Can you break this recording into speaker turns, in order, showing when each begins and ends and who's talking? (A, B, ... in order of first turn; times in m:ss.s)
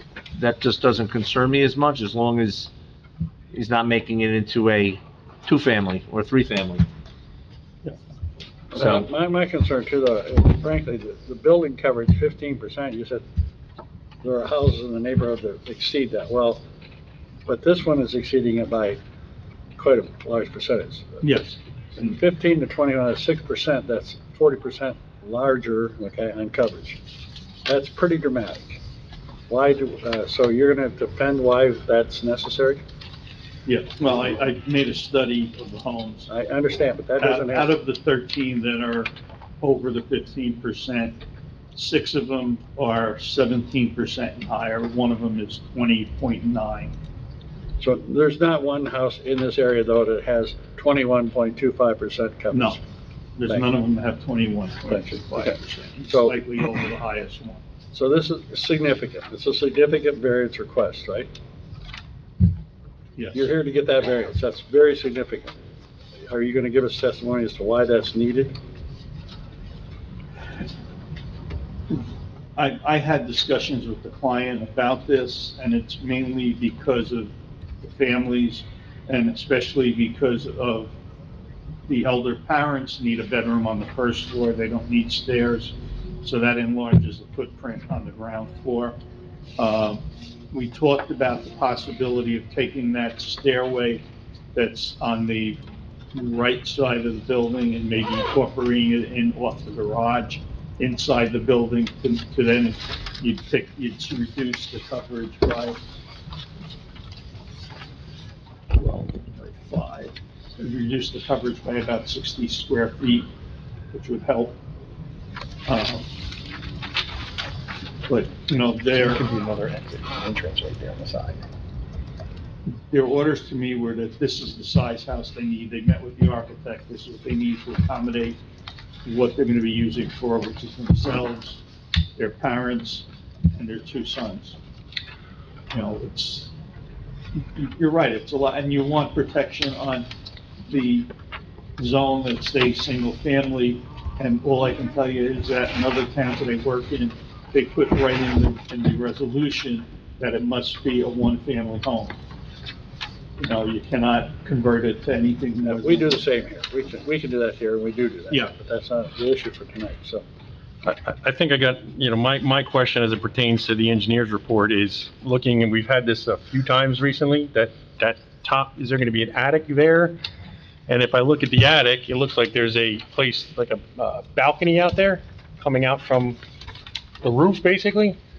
0:00.4-0:02.7 A
0:03.5-0:06.8 A
0:08.7-0:13.2 B
0:14.2-0:16.6 B
0:17.5-0:19.0 B
0:19.8-0:21.3 B
0:21.2-0:22.1 C
0:22.0-0:27.0 B
0:27.6-0:28.8 B
0:29.5-0:32.8 B
0:33.7-0:36.3 C
0:36.3-0:37.8 B
0:37.2-0:41.2 C
0:41.8-0:47.0 C
0:47.8-0:52.8 B
0:52.5-0:52.8 C
0:53.4-0:57.6 C
0:54.9-0:55.6 B
0:56.1-0:56.4 B
0:57.9-1:01.3 B
1:03.2-1:03.5 C
1:03.3-1:05.6 B
1:06.2-1:08.6 B
1:12.6-1:20.9 C
1:21.9-1:29.0 C
1:29.6-1:35.6 C
1:36.1-1:45.8 C
1:48.7-1:53.3 C
1:53.9-1:54.6 C
1:55.7-1:56.1 C
1:58.1-1:59.2 C
1:59.0-2:01.4 D
2:02.9-2:08.4 C
2:09.0-2:11.6 C
2:12.2-2:14.6 C
2:15.7-2:16.5 C
2:17.6-2:20.1 C
2:20.7-2:21.1 C
2:21.8-2:32.2 C
2:33.4-2:36.2 C
2:35.6-2:40.2 B
2:40.8-2:50.2 D
2:50.9-2:56.4 D
2:57.2-2:58.2 D